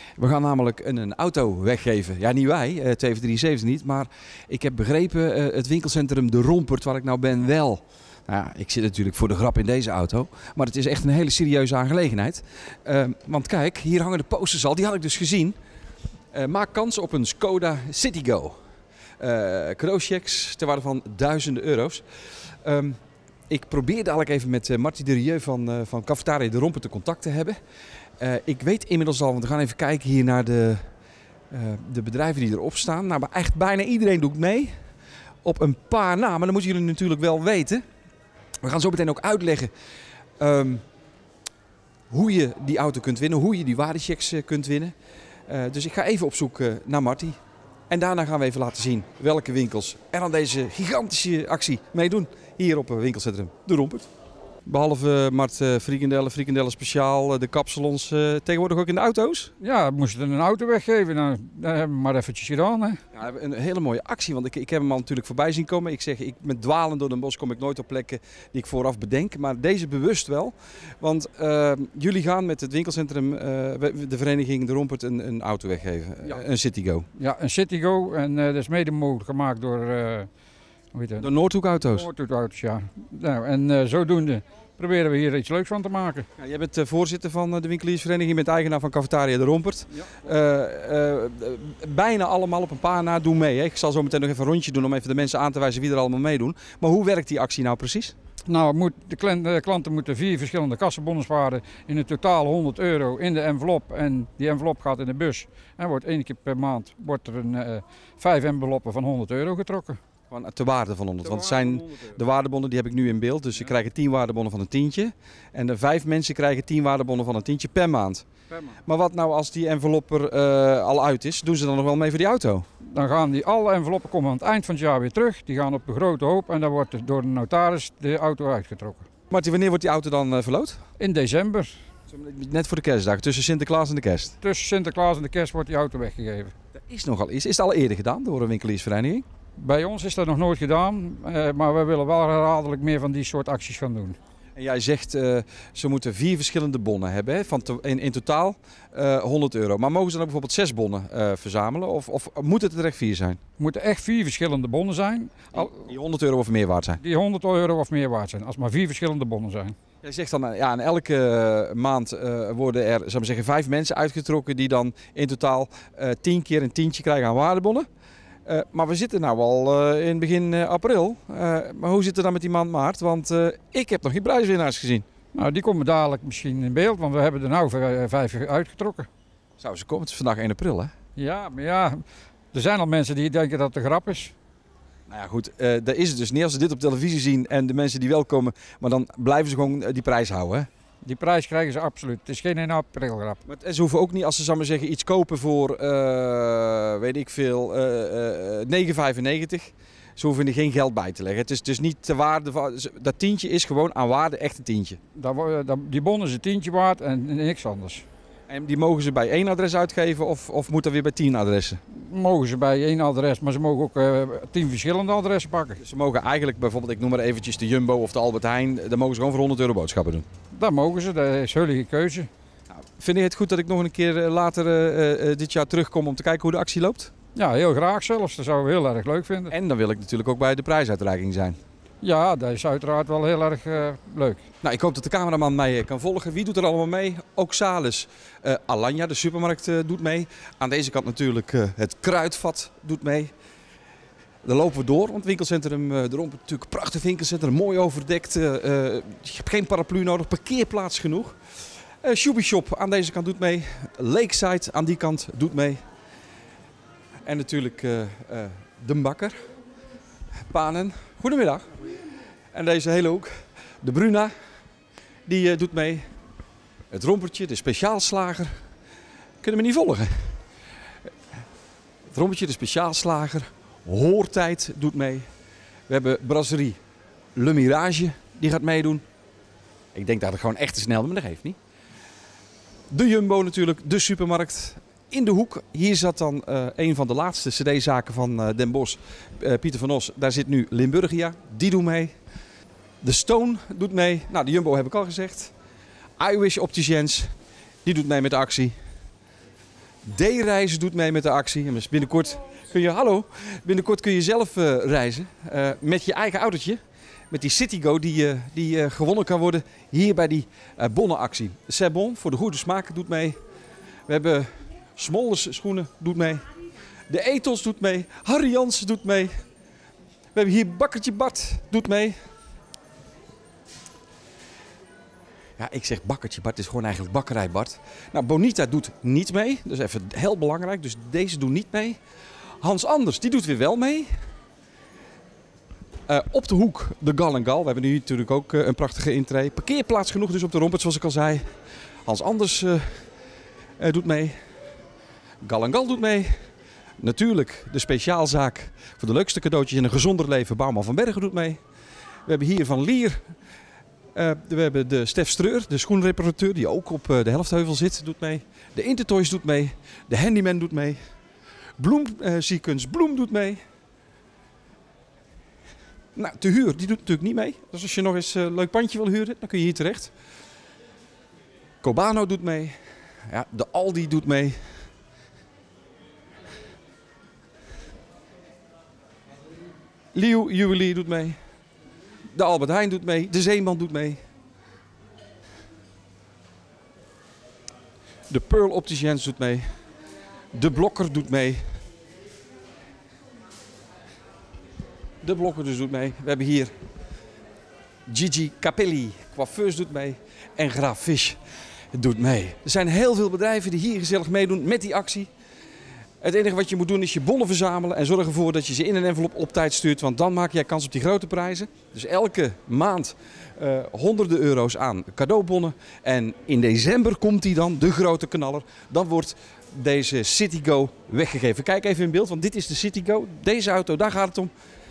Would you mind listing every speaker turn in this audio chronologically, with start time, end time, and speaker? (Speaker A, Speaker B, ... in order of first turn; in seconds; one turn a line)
Speaker A: 0.2-15.6
Speaker A: 16.3-18.6
Speaker A: 19.2-23.0
Speaker A: 23.5-27.6
Speaker A: 28.2-30.9
Speaker A: 31.5-34.7
Speaker A: 35.4-37.8
Speaker A: 38.6-39.7
Speaker A: 40.4-40.8
Speaker A: 42.1-44.9
Speaker A: 45.5-47.4
Speaker A: 47.9-54.1
Speaker A: 54.7-59.5
Speaker B: 59.6-63.0
Speaker A: 63.1-77.0
Speaker B: 77.2-80.3
Speaker B: 80.9-86.2
Speaker A: 81.2-82.1
Speaker A: 86.4-98.1
Speaker B: 98.5-110.0
Speaker A: 110.3-118.2
Speaker B: 111.2-112.2
Speaker A: 118.9-122.7
Speaker B: 122.8-129.1
Speaker A: 129.3-130.8
Speaker B: 131.0-131.7
Speaker A: 132.1-134.3
Speaker B: 134.4-136.5
Speaker A: 136.7-139.2
Speaker B: 139.6-144.2
Speaker A: 144.6-153.4
Speaker B: 153.6-155.7
Speaker A: 155.5-157.0
Speaker B: 157.0-159.8
Speaker A: 160.0-167.9
Speaker A: 168.5-175.1
Speaker B: 175.3-179.1
Speaker A: 179.6-180.9
Speaker B: 181.2-182.0
Speaker B: 182.5-184.3
Speaker A: 185.1-190.7
Speaker B: 191.0-193.4
Speaker A: 193.4-205.0
Speaker B: 205.2-208.0
Speaker A: 208.5-211.8
Speaker B: 212.0-215.8
Speaker A: 215.8-220.2
Speaker B: 220.5-222.3
Speaker A: 222.7-227.1
Speaker B: 227.3-229.5
Speaker A: 229.5-231.6
Speaker B: 232.0-234.4
Speaker A: 234.6-243.3
Speaker A: 244.4-251.3
Speaker A: 252.0-255.8
Speaker A: 257.2-259.4
Speaker A: 260.5-261.7
Speaker A: 262.5-264.3
Speaker A: 265.3-266.1
Speaker A: 266.9-268.5
Speaker A: 269.4-270.4
Speaker A: 272.1-275.3
Speaker A: 275.9-276.8
Speaker A: 277.4-279.0
Speaker A: 279.9-281.6
Speaker A: 282.9-292.1
Speaker A: 293.0-295.5
Speaker A: 296.2-297.3
Speaker A: 297.9-298.8
Speaker A: 300.1-306.8
Speaker A: 307.3-313.4
Speaker A: 314.1-316.5
Speaker A: 317.1-319.3
Speaker A: 320.3-322.2
Speaker A: 325.6-332.0
Speaker A: 332.6-334.1
Speaker A: 336.1-341.4
Speaker A: 342.1-343.0
Speaker A: 343.8-344.4
Speaker A: 345.4-346.4
Speaker A: 347.0-351.6
Speaker A: 352.3-353.2
Speaker A: 354.1-361.0
Speaker A: 361.8-363.6
Speaker A: 366.1-370.1
Speaker A: 371.8-372.8
Speaker A: 373.3-374.6
Speaker A: 380.1-381.4
Speaker A: 382.3-384.2
Speaker A: 388.3-389.7
Speaker A: 390.5-391.8
Speaker A: 395.2-396.7
Speaker A: 398.1-401.4
Speaker A: 401.9-405.3
Speaker A: 406.2-424.5